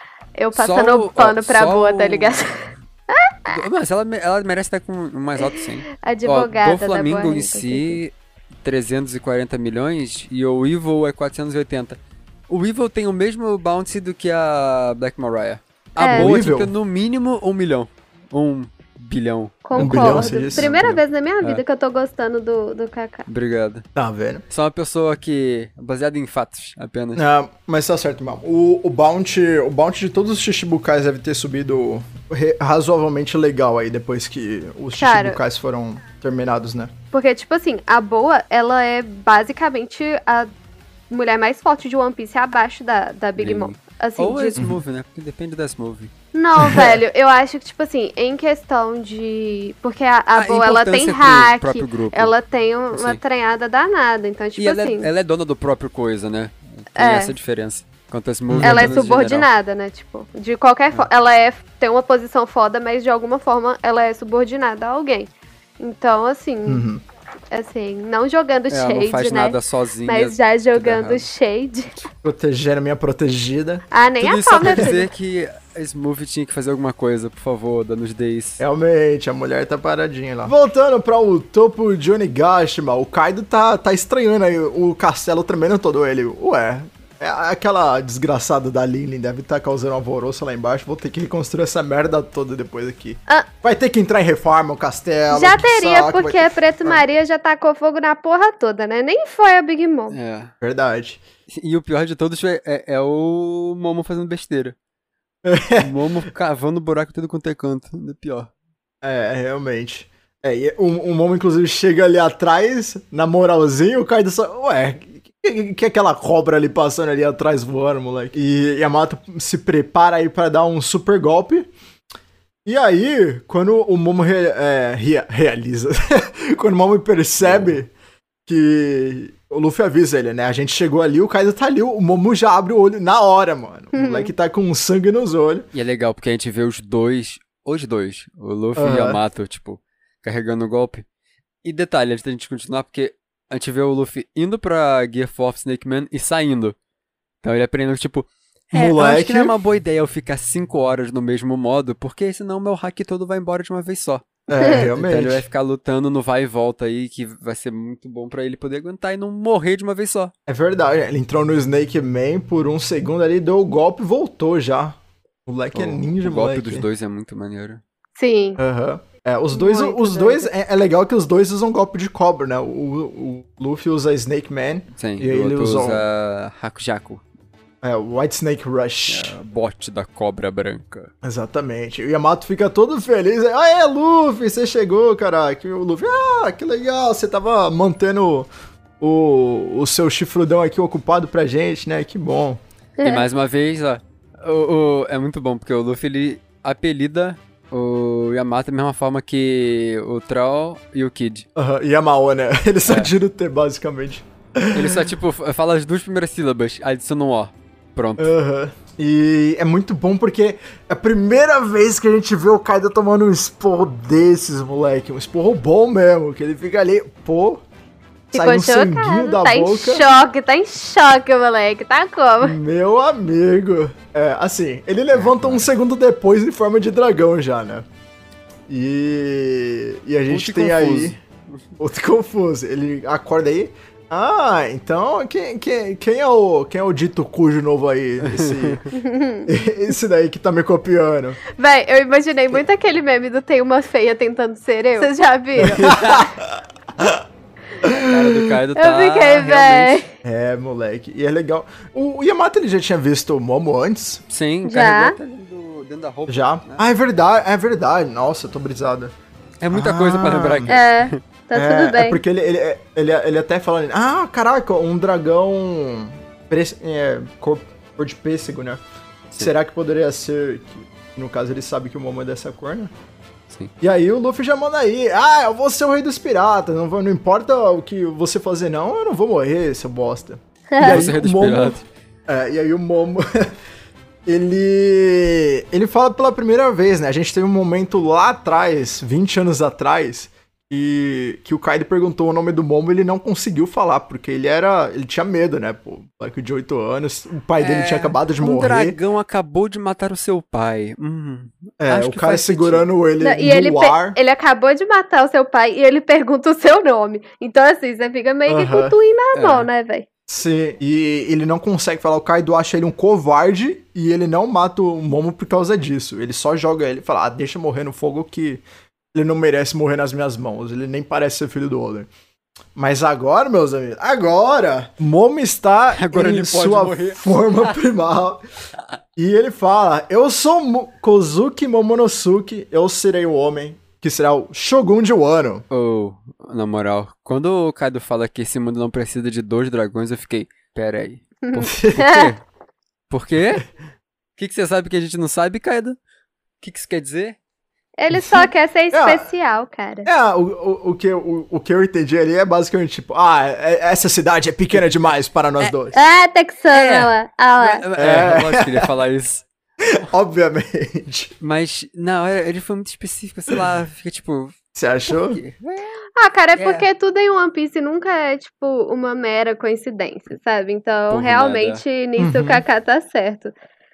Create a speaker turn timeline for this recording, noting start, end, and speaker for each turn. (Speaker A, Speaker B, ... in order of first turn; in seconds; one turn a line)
Speaker A: 0.4-3.6
Speaker B: 0.5-2.4
Speaker B: 3.5-21.6
Speaker A: 5.4-8.0
Speaker A: 16.0-16.3
Speaker C: 16.1-16.7
Speaker A: 19.6-23.3
Speaker C: 19.8-20.7
Speaker B: 23.3-23.8
Speaker C: 23.9-24.4
Speaker B: 24.5-27.2
Speaker C: 27.1-36.9
Speaker A: 35.0-35.4
Speaker A: 37.1-40.5
Speaker A: 41.1-44.6
Speaker B: 43.4-46.1
Speaker A: 46.3-55.1
Speaker C: 46.6-47.0
Speaker B: 50.3-52.3
Speaker B: 52.9-53.2
Speaker B: 54.6-59.5
Speaker A: 57.0-57.3
Speaker C: 58.5-59.0
Speaker A: 58.6-65.3
Speaker A: 65.8-66.8
Speaker C: 66.7-67.0
Speaker A: 67.5-72.0
Speaker B: 68.7-71.2
Speaker C: 72.2-73.8
Speaker A: 73.9-75.1
Speaker B: 74.2-78.6
Speaker C: 74.6-74.9
Speaker C: 78.6-97.0
Speaker A: 95.3-100.2
Speaker B: 100.1-100.5
Speaker C: 100.6-101.2
Speaker B: 101.5-104.8
Speaker C: 105.5-105.9
Speaker B: 105.8-108.5
Speaker C: 109.0-121.7
Speaker C: 122.6-127.9
Speaker B: 127.4-127.8
Speaker C: 128.4-135.7
Speaker A: 133.9-134.3
Speaker B: 135.7-141.1
Speaker C: 138.8-139.2
Speaker B: 141.6-146.8
Speaker B: 147.4-160.3
Speaker C: 148.7-149.6
Speaker C: 154.5-155.4
Speaker C: 160.5-166.9
Speaker B: 165.7-167.8
Speaker A: 168.2-168.6
Speaker C: 168.6-176.0
Speaker A: 169.5-170.5
Speaker B: 174.9-177.2
Speaker C: 177.8-179.4
Speaker B: 179.1-181.1
Speaker C: 181.2-188.5
Speaker C: 189.0-192.6
Speaker A: 193.0-193.2
Speaker B: 193.0-201.5
Speaker C: 201.6-205.0
Speaker B: 202.9-203.1
Speaker B: 204.7-208.3
Speaker C: 208.2-217.6
Speaker C: 218.3-220.0
Speaker A: 218.3-222.6
Speaker C: 222.4-227.8
Speaker B: 225.1-225.7
Speaker C: 228.7-231.2
Speaker B: 230.3-231.2
Speaker C: 231.8-238.9
Speaker B: 238.2-238.8
Speaker A: 238.9-239.6
Speaker C: 239.4-241.4
Speaker A: 241.5-246.3
Speaker B: 245.6-246.3
Speaker C: 245.6-247.2
Speaker C: 247.8-248.5
Speaker B: 247.8-250.0
Speaker A: 248.8-250.1
Speaker C: 250.2-254.2
Speaker B: 254.3-256.8
Speaker A: 254.7-255.2
Speaker C: 256.3-259.1
Speaker B: 259.6-261.2
Speaker C: 259.7-260.7
Speaker A: 260.7-262.2
Speaker C: 261.6-268.8
Speaker C: 269.4-272.9
Speaker C: 273.8-283.5
Speaker A: 280.7-281.0
Speaker B: 280.8-281.8
Speaker C: 284.3-298.9
Speaker B: 297.6-302.9
Speaker C: 301.8-304.1
Speaker A: 303.2-310.1
Speaker C: 308.5-308.9
Speaker B: 309.3-309.7
Speaker C: 310.3-318.6
Speaker C: 319.1-322.1
Speaker C: 322.7-328.4
Speaker B: 325.9-327.7
Speaker C: 329.1-335.6
Speaker B: 335.7-341.3
Speaker A: 341.4-342.3
Speaker C: 341.6-342.0
Speaker B: 341.8-342.4
Speaker B: 343.1-343.6
Speaker B: 344.4-346.0
Speaker B: 346.6-347.4
Speaker A: 348.0-350.1
Speaker C: 348.1-349.2
Speaker C: 350.1-356.0
Speaker A: 355.9-357.9
Speaker B: 356.7-359.4
Speaker C: 358.0-358.9
Speaker C: 359.8-361.3
Speaker B: 361.4-365.9
Speaker C: 364.7-365.4
Speaker A: 366.1-373.5
Speaker B: 366.6-366.9
Speaker B: 371.1-371.8
Speaker C: 372.2-372.6